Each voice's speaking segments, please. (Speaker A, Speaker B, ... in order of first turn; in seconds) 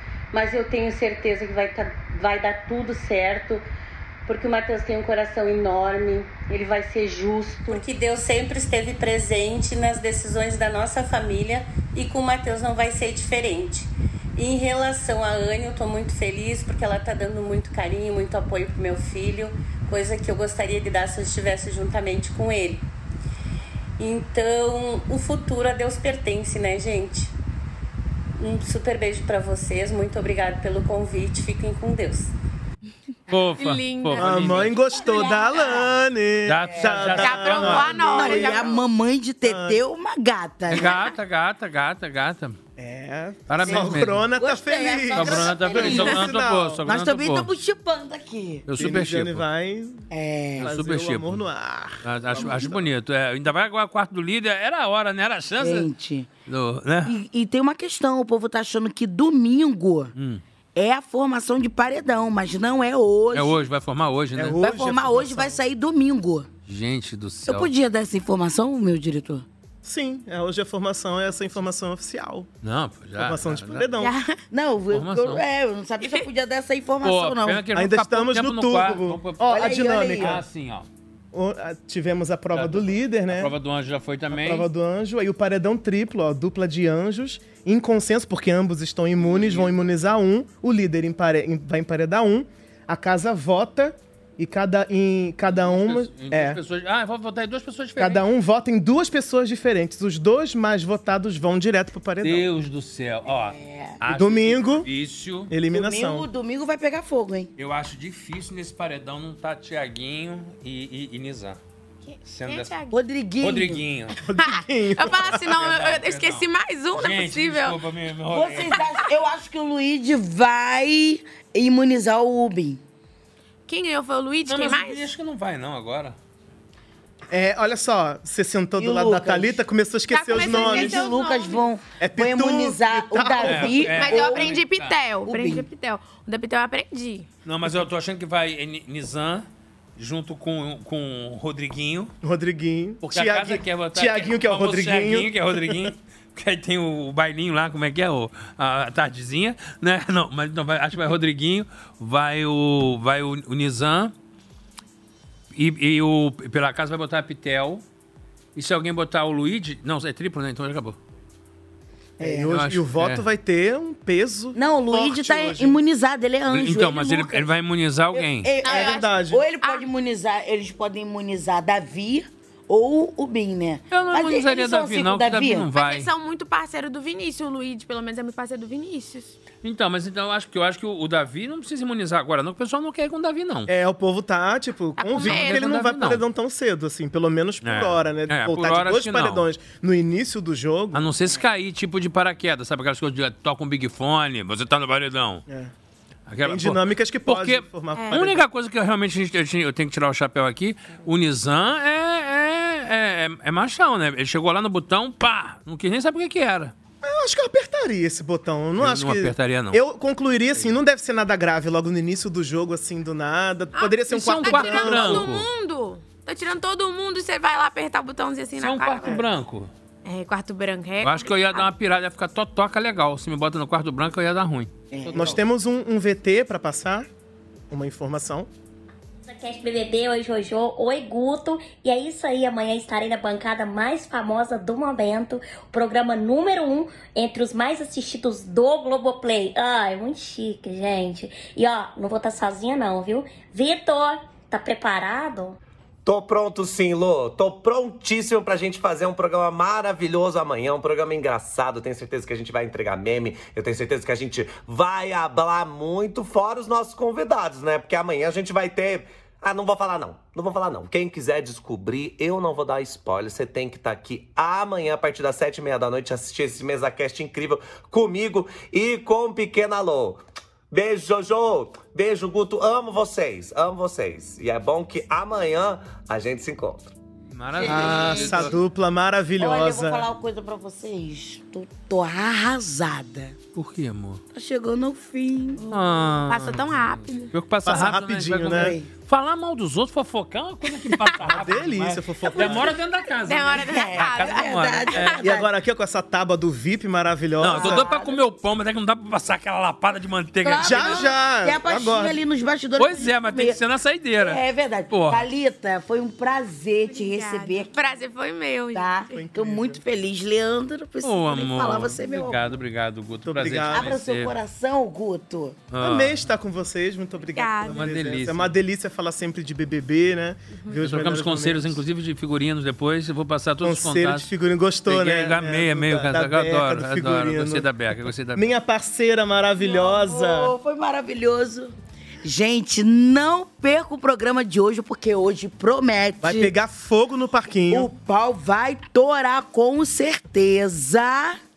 Speaker A: 0.3-3.6, 4.2-22.8, 24.0-27.3, 28.4-32.3
Speaker B: 33.3-34.7, 36.4-38.0, 40.7-42.6, 43.5-44.3, 45.1-47.5, 48.7-49.4, 50.6-51.4, 52.0-55.9, 56.5-57.1, 60.1-60.4, 63.3-64.6, 66.7-67.7, 72.6-73.9, 74.9-75.4, 77.0-80.9, 82.5-84.7, 89.3-89.7, 95.5-98.2, 102.2-105.5, 107.6-111.6, 112.3-112.7, 113.4-114.2, 115.1-118.8, 124.5-126.2, 133.4-135.0, 137.4-139.4, 140.0-142.1, 143.0-154.1, 155.5-157.8, 158.5-161.0, 162.5-163.2, 166.5-168.5, 173.9-176.1, 179.6-183.7, 185.2-186.2, 187.6-189.5, 190.9-195.4, 196.3-206.7, 208.8-209.8, 214.1-215.5, 218.6-219.7, 221.0-225.4, 277.3-278.6, 283.5-284.2, 285.7-295.3, 297.4-301.0, 302.8-305.2, 311.0-314.3, 315.7-316.3, 317.7-318.6, 320.8-324.3, 324.9-328.5
Speaker C: 33.6-35.9, 37.1-38.8, 74.0-74.4, 112.0-113.0, 114.4-117.8, 123.7-125.1, 130.1-131.7, 133.9-137.3, 168.6-169.9, 175.7-179.3, 185.0-185.8, 197.9-198.2, 213.8-219.2, 220.0-221.7, 285.6-287.3, 290.9-291.2, 293.2-295.2, 306.9-309.0, 317.3-317.9
Speaker D: 34.2-38.5, 39.4-39.8, 42.8-46.8, 48.8-50.0, 50.6-52.9, 64.3-65.6, 69.8-72.5, 73.2-74.1, 77.7-80.4, 81.3-83.5, 84.3-96.6, 98.0-102.5, 104.1-104.9, 105.5-106.3, 114.2-115.4, 127.3-131.1, 132.0-133.9, 142.2-145.9, 162.2-165.8, 168.7-169.4, 183.7-191.4, 196.4-198.4, 207.0-215.3, 225.1-227.1, 227.7-228.5, 277.6-280.1, 287.6-288.8, 291.2-292.7, 295.2-297.9, 300.6-302.2, 309.1-309.8, 313.2-313.9, 315.8-321.8, 323.6-327.7, 328.3-330.5, 336.2-337.9
Speaker E: 35.3-35.8, 36.7-37.4, 38.0-41.0, 43.6-46.3, 46.8-48.6, 50.1-50.7, 55.6-56.3, 57.0-60.1, 60.8-63.5, 64.6-66.5, 67.5-69.4, 74.5-77.6, 79.5-80.4, 103.2-104.0, 105.7-107.5, 112.9-113.8, 118.3-122.8, 128.8-129.6, 130.3-134.6, 135.2-135.7, 162.2-162.5, 164.5-167.5, 168.1-175.7, 224.9-225.4, 277.6-278.6, 279.4-283.3, 284.3-285.6, 288.4-288.9, 292.3-292.7, 293.5-295.5, 297.4-298.2, 300.4-303.6, 304.2-307.7, 308.7-312.6, 313.7-315.6, 329.6-336.5, 337.7-341.4
Speaker F: 229.2-245.6
Speaker G: 246.1-276.9